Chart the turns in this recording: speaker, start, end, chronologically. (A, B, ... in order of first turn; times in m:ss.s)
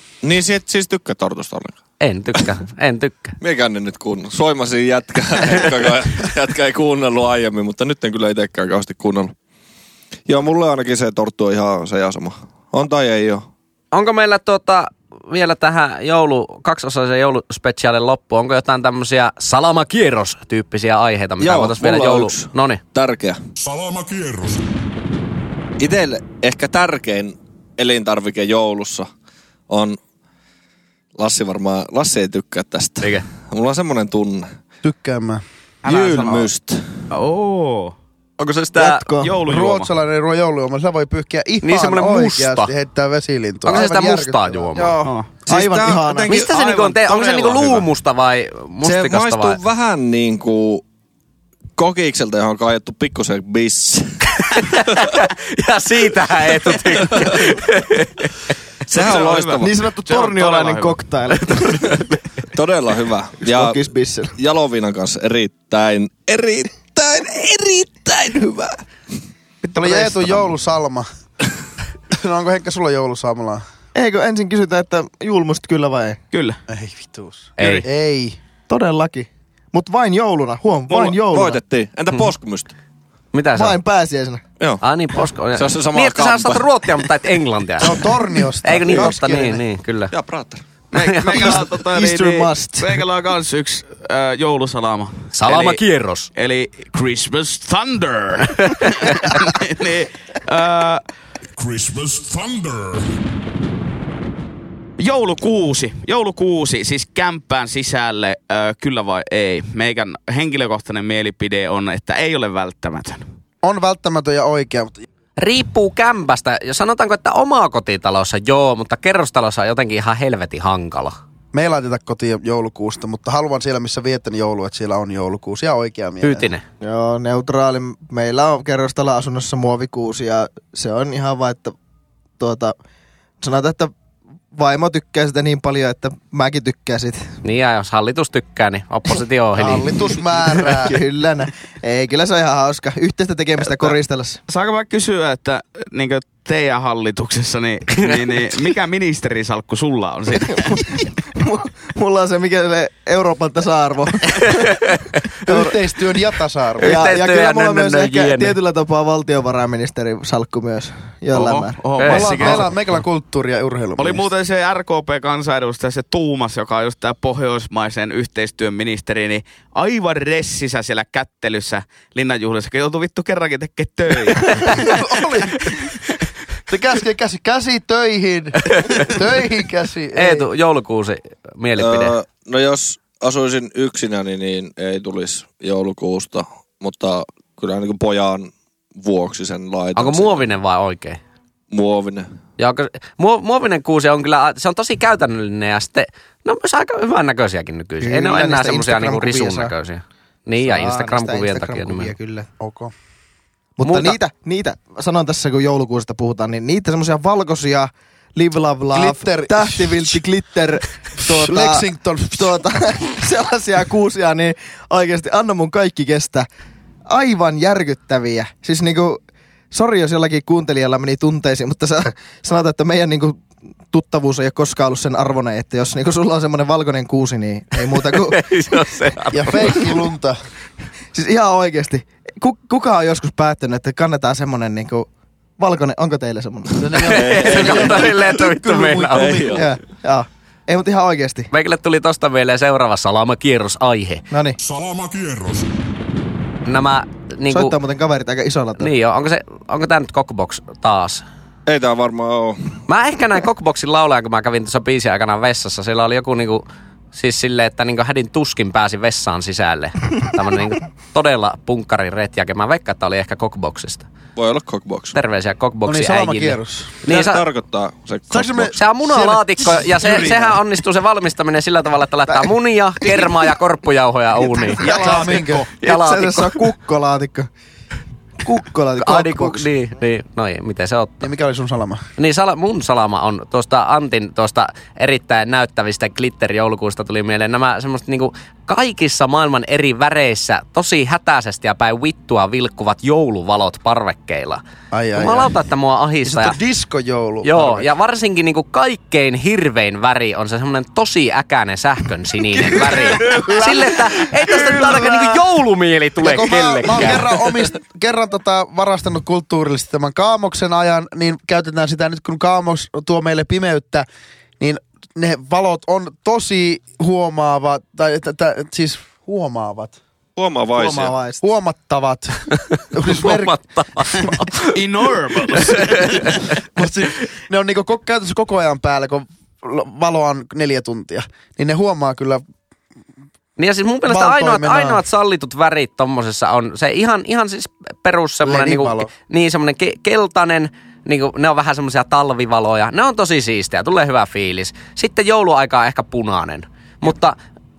0:00.2-0:01.8 A
0:02.0-0:03.4 B
0:03.4-0:09.3 A
0:10.3-0:13.5 A
0:13.9-0:22.8 B
0:21.4-0:23.4 A
0:23.6-0:24.7 C
0:25.8-0:29.1 A
0:29.7-0:30.0 A
0:31.2-0:34.5 A
0:34.8-0:35.4 D
0:35.8-0:36.5 E
0:35.8-0:36.8 A
0:37.1-0:38.0 E
0:38.4-0:39.1 B
0:38.8-0:39.4 F
0:39.2-0:39.9 E
0:39.4-0:44.9 D
0:41.6-0:42.7 B
0:43.6-0:45.0 B
0:45.0-0:46.3 F
0:45.0-0:45.3 E
0:45.4-0:46.5 A
0:46.3-0:49.6 B
0:46.4-0:47.8 E
0:48.8-0:50.8 A
0:51.8-0:55.1 A
0:54.4-0:58.5 B
0:57.2-0:57.5 A
0:58.9-0:59.7 A
0:58.9-1:01.0 E
0:59.6-1:02.0 F
1:01.5-1:02.2 B
1:02.5-1:03.8 A
1:03.4-1:04.3 F
1:04.4-1:08.8 A
1:09.7-1:11.1 D
1:09.8-1:10.3 E
1:12.1-1:13.6 D
1:13.9-1:16.2 F
1:16.3-1:16.6 E
1:16.7-1:18.4 D
1:17.6-1:17.8 E
1:17.6-1:17.8 B
1:18.7-1:21.6 F
1:20.9-1:22.7 A
1:23.3-1:23.8 B
1:23.5-1:24.4 F
1:24.8-1:28.0 B
1:25.5-1:26.6 A
1:27.8-1:29.6 D
1:28.6-1:30.1 B
1:30.1-1:30.6 A
1:30.9-1:35.8 E
1:30.9-1:31.6 B
1:31.3-1:33.0 F
1:35.3-1:36.3 B
1:36.3-1:41.0 E
1:38.6-1:39.3 B
1:41.6-1:43.2 C
1:45.0-1:53.2 E
1:53.6-1:55.0 D
1:55.4-2:01.2 B
2:01.5-2:06.5 D
2:06.2-2:06.6 B
2:06.8-2:11.7 F
2:12.4-2:12.7 F
2:13.4-2:13.9 F
2:14.5-2:17.3 F
2:17.4-2:19.9 B
2:19.6-2:21.0 D
2:20.6-2:24.4 F
2:23.6-2:23.9 E
2:24.5-2:30.9 E
2:30.4-2:34.8 F
2:34.4-2:35.2 B
2:35.4-2:35.8 F
2:35.5-2:37.0 D
2:36.8-2:38.6 B
2:36.8-2:42.6 F
2:41.3-2:42.7 E
2:42.0-2:42.6 B
2:42.1-2:44.2 D
2:44.0-2:55.0 E
2:54.9-2:55.6 D
2:56.7-3:00.5 D
3:00.1-3:02.1 B
3:01.8-3:10.4 A
3:10.0-3:11.2 B
3:11.7-3:12.3 A
3:12.6-3:22.1 B
3:18.0-3:19.7 F
3:20.6-3:22.5 F
3:22.6-3:22.9 D
3:23.8-3:36.5 F
3:23.8-3:24.2 B
3:28.9-3:30.2 D
3:31.2-3:32.6 D
3:37.1-3:48.4 F
3:48.0-3:49.8 B
3:49.3-3:50.4 D
3:51.1-3:57.1 F
3:56.8-3:59.6 D
3:57.0-3:59.5 B
3:57.0-3:58.2 A
3:59.1-3:59.6 A
3:59.5-4:01.5 F
4:01.5-4:04.2 B
4:04.3-4:04.6 F
4:04.6-4:05.7 C
4:06.6-4:07.8 B
4:07.5-4:08.9 F
4:08.8-4:11.2 B
4:11.6-4:12.8 A
4:12.9-4:16.6 B
4:17.1-4:24.0 B
4:24.4-4:25.2 A
4:25.1-4:27.4 B
4:25.8-4:27.0 D
4:27.0-4:28.8 A
4:28.3-4:30.6 D
4:28.8-4:36.7 B
4:34.6-4:37.5 F
4:34.8-4:35.7 D
4:38.4-4:39.7 F
4:39.0-4:41.3 B
4:41.2-4:42.0 D
4:42.2-4:54.6 B
4:54.9-4:55.5 D
4:55.1-4:56.6 B
4:56.2-4:57.9 D
4:57.4-5:07.3 B
5:02.8-5:05.4 D
5:06.2-5:14.1 D
5:14.6-5:20.0 D
5:20.4-5:21.2 A
5:20.7-5:21.4 F
5:21.4-5:24.4 D
5:23.0-5:24.7 B
5:24.7-5:26.3 E
5:25.6-5:26.4 B
5:26.7-5:32.4 D
5:33.6-5:47.4 B
5:34.1-5:35.0 D
5:38.4-5:39.1 D